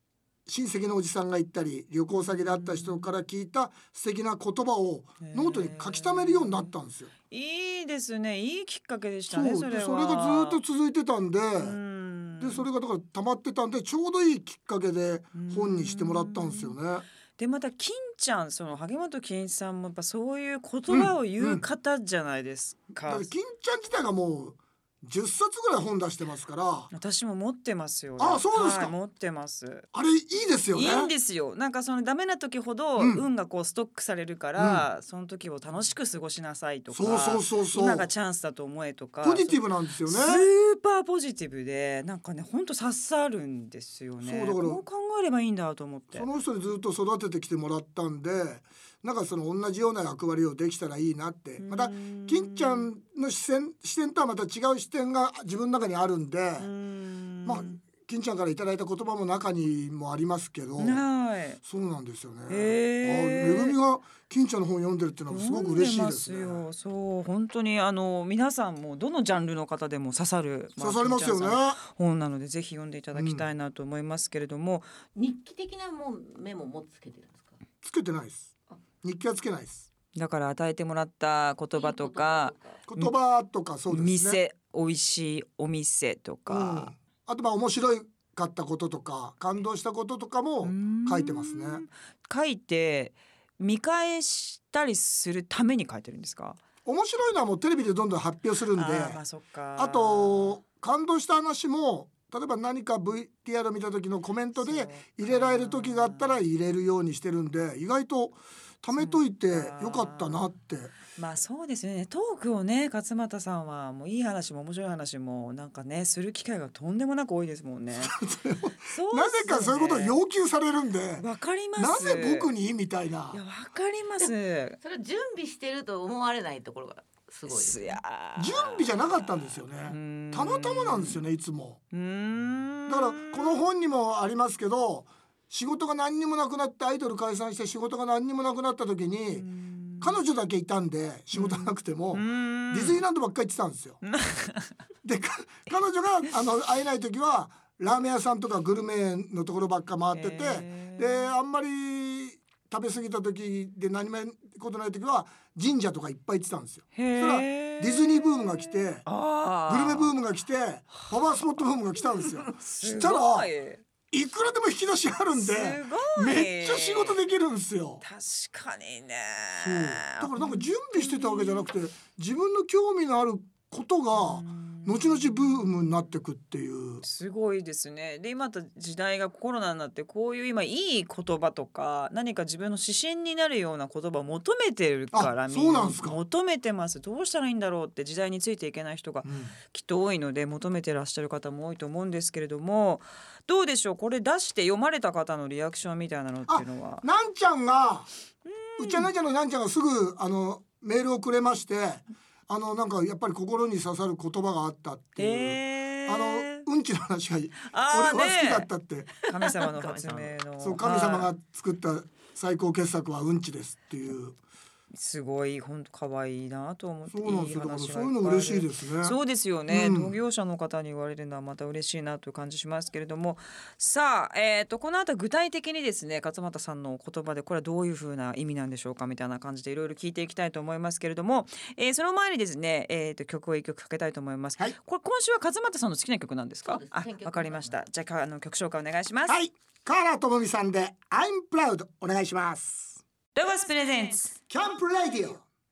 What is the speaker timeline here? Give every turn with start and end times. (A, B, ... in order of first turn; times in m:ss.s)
0:00.4-0:07.1 A
0:02.2-0:03.1 B
0:05.2-0:06.7 B
0:07.3-0:10.6 B
0:09.3-0:11.8 A
0:11.6-0:12.6 B
0:12.4-0:17.0 A
0:15.3-0:16.8 B
0:17.4-0:23.3 B
0:20.9-0:21.6 A
0:23.0-0:26.9 A
0:26.9-0:29.8 B
0:28.2-0:28.9 A
0:29.9-0:31.1 A
0:30.7-0:46.3 B
0:33.0-0:33.2 A
0:34.6-0:34.8 A
0:36.9-0:38.1 A
0:39.2-0:40.4 A
0:44.2-0:44.8 A
0:46.1-0:56.7 A
0:51.6-0:52.9 B
0:56.6-0:57.8 B
0:57.4-1:01.0 A
1:00.8-1:01.6 B
1:01.6-1:06.6 A
1:02.5-1:03.8 B
1:05.3-1:14.8 B
1:10.8-1:11.8 A
1:13.1-1:13.4 A
1:15.2-1:17.6 C
1:17.8-1:19.8 A
1:20.1-1:23.1 B
1:21.7-1:22.8 C
1:22.9-1:24.4 A
1:23.9-1:26.9 B
1:26.5-1:31.8 A
1:30.6-1:36.6 B
1:36.8-1:39.2 A
1:38.8-1:40.6 B
1:39.8-1:50.9 A
1:44.6-1:46.4 B
1:49.0-1:50.5 B
1:51.1-1:58.2 B
1:58.0-2:03.4 A
1:58.8-2:00.2 B
2:01.2-2:02.5 B
2:03.3-2:04.8 B
2:04.2-2:08.0 C
2:07.5-2:09.0 B
2:08.4-2:11.8 A
2:09.8-2:11.2 B
2:11.9-2:13.6 B
2:12.9-2:19.4 A
2:19.4-2:20.2 B
2:20.0-2:24.0 A
2:21.3-2:23.0 B
2:24.0-2:24.7 B
2:25.0-2:39.0 A
2:30.1-2:31.2 B
2:36.9-2:40.1 B
2:39.7-2:43.5 A
2:42.2-2:43.8 B
2:44.1-2:48.0 A
2:45.3-2:47.2 B
2:48.0-2:51.7 B
2:49.6-2:57.0 A
2:54.1-2:55.8 B
2:57.0-3:17.0 B
3:05.1-3:06.2 A
3:09.2-3:09.6 A
3:16.5-3:18.1 A
3:18.4-3:19.1 B
3:18.8-3:29.2 A
3:25.2-3:26.6 B
3:27.6-3:28.7 B
3:29.2-3:31.3 B
3:29.4-3:30.4 C
3:30.6-3:34.4 A
3:34.9-3:59.4 B
3:37.1-3:39.2 A
3:39.7-3:40.1 A
3:56.6-3:57.8 C
3:59.3-4:03.0 A
4:03.3-4:04.4 B
4:04.5-4:05.4 A